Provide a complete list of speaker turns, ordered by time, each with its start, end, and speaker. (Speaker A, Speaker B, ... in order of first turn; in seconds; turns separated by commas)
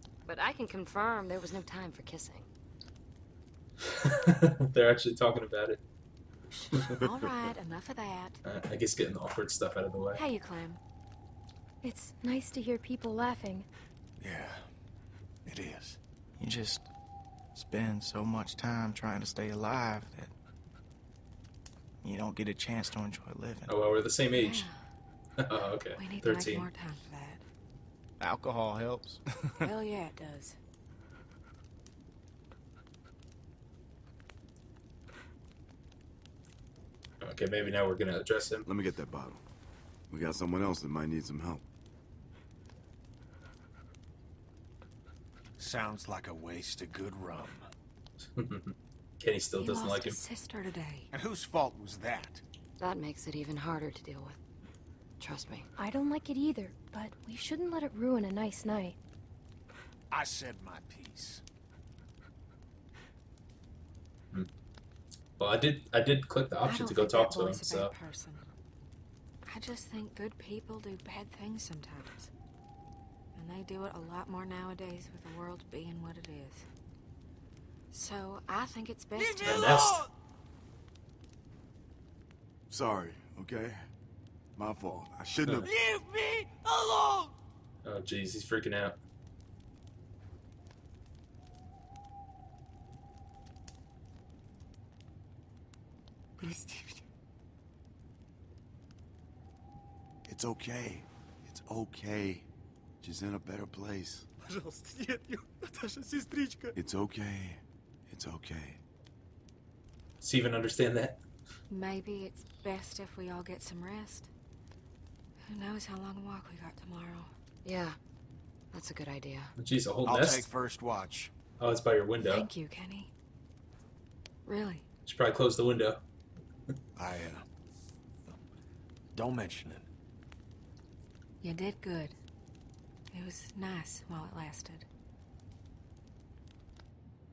Speaker A: 0.2-2.5, Speaker B: 4.0-5.8, Speaker C: 6.5-8.4, Speaker B: 8.4-10.2, Speaker C: 10.1-10.8, Speaker D: 11.8-13.7, Speaker E: 14.2-14.7, Speaker E: 15.4-16.0, Speaker F: 16.4-16.9, Speaker F: 17.5-20.3, Speaker F: 22.0-23.7, Speaker B: 23.6-24.7, Speaker C: 24.3-24.8, Speaker B: 25.4-26.7, Speaker C: 25.9-27.4, Speaker F: 28.3-29.1, Speaker C: 29.6-30.6, Speaker B: 37.2-38.6, Speaker G: 38.6-39.4, Speaker G: 40.1-41.6, Speaker E: 45.6-47.6, Speaker B: 48.4-50.2, Speaker C: 49.6-51.1, Speaker E: 51.1-52.4, Speaker A: 52.8-54.4, Speaker A: 55.2-55.7, Speaker D: 55.8-59.0, Speaker E: 60.1-61.4, Speaker B: 65.4-67.9, Speaker C: 66.6-68.4, Speaker C: 69.5-72.3, Speaker C: 73.4-76.7, Speaker C: 77.9-79.8, Speaker H: 79.2-80.1, Speaker B: 79.4-80.0, Speaker G: 82.7-83.8, Speaker G: 84.6-85.7, Speaker H: 85.7-87.3, Speaker B: 87.8-89.0, Speaker H: 96.4-97.0, Speaker G: 100.3-102.5, Speaker G: 103.0-104.2, Speaker H: 104.5-106.7, Speaker G: 106.8-108.8, Speaker B: 110.2-111.2, Speaker C: 111.7-114.3, Speaker C: 115.5-117.3, Speaker A: 117.6-118.0, Speaker A: 118.7-119.5, Speaker B: 119.6-120.5, Speaker E: 120.0-121.3, Speaker B: 121.6-122.5, Speaker C: 122.2-123.1, Speaker C: 124.5-124.8, Speaker B: 125.1-126.0, Speaker E: 127.0-127.4, Speaker E: 129.1-129.9, Speaker C: 131.4-132.1, Speaker C: 133.1-134.8